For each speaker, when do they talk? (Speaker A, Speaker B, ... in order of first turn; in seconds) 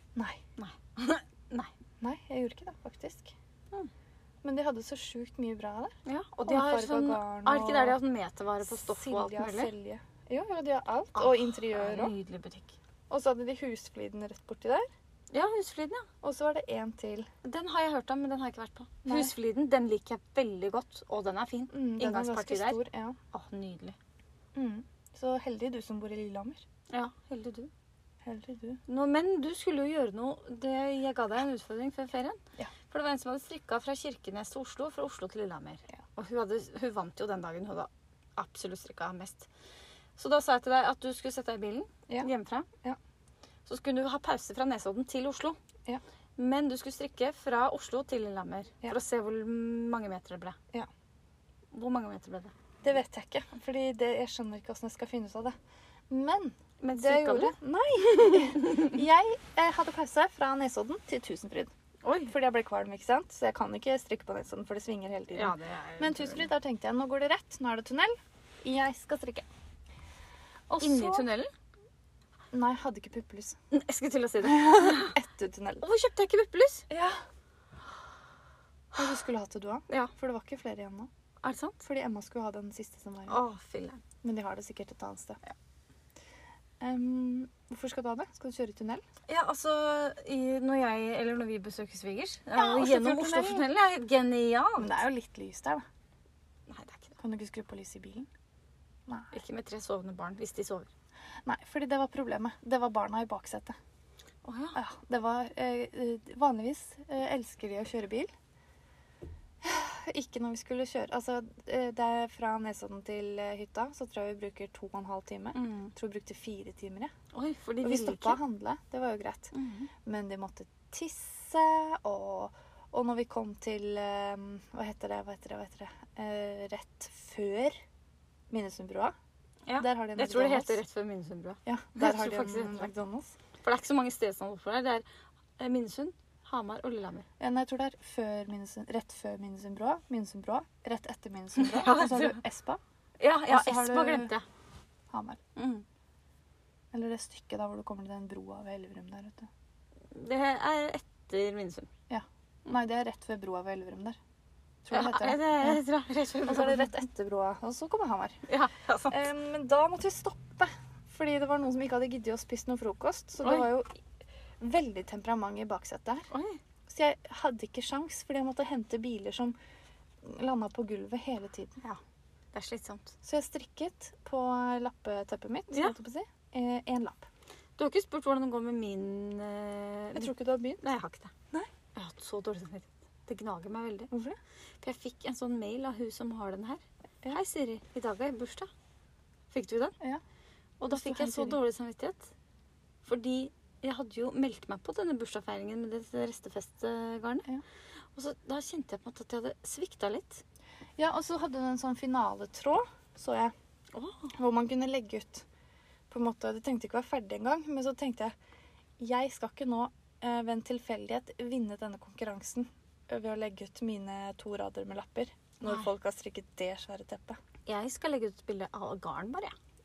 Speaker A: 0.6-1.7, 6.0-9.7, 11.1-12.8, 15.3-16.1, 17.4-22.8, 23.3-24.0, 26.9-27.7, 28.9-39.5, 40.2-42.7, 43.6-45.6, 46.4-50.5, 51.7-52.5, 56.8-59.0, 62.0-62.3, 65.3-66.5, 70.8-71.5, 73.7-75.2, 75.8-76.9, 81.4-81.8, 83.3-84.0, 89.3-95.0, 96.7-97.2, 99.3-100.9, 104.4-104.8, 115.5-115.9, 117.3-118.4, 119.5-119.9, 129.7-132.9, 133.6-135.0, 135.6-137.3, 141.6-142.4, 143.2-144.4, 145.6-145.8, 150.1-151.9, 154.9-156.9, 158.5-159.2, 166.3-166.6, 172.5-173.1, 177.8-181.3, 181.9-184.1, 184.8-188.7, 189.5-189.9, 190.8-192.3, 193.0-197.4, 198.1-200.4, 203.9-204.3, 217.7-219.5
Speaker B: 2.0-3.3, 4.4-8.0, 8.6-12.1, 13.1-14.8, 16.2-17.3, 19.0-19.3, 21.7-23.2, 24.5-26.6, 28.2-28.8, 52.8-55.5, 56.1-61.7, 62.3-69.5, 70.7-71.3, 72.5-73.5, 74.4-75.8, 76.9-77.2, 78.9-81.1, 81.8-83.4, 84.2-85.4, 86.8-89.0, 92.5-93.7, 94.8-95.8, 97.2-98.3, 101.4-103.8, 104.7-108.3, 109.6-117.1, 117.8-119.5, 120.0-127.8, 128.5-129.1, 129.8-130.8, 131.7-133.3, 137.4-142.8, 143.5-144.3, 145.1-145.4, 146.9-149.5, 152.1-154.2, 154.8-155.8, 156.4-158.4, 159.1-164.0, 164.6-166.3, 166.9-169.5, 170.2-171.8, 173.2-177.3, 180.1-180.8, 184.1-184.4, 190.9-191.6, 201.0-203.5, 204.4-205.4, 206.1-208.3, 209.0-217.4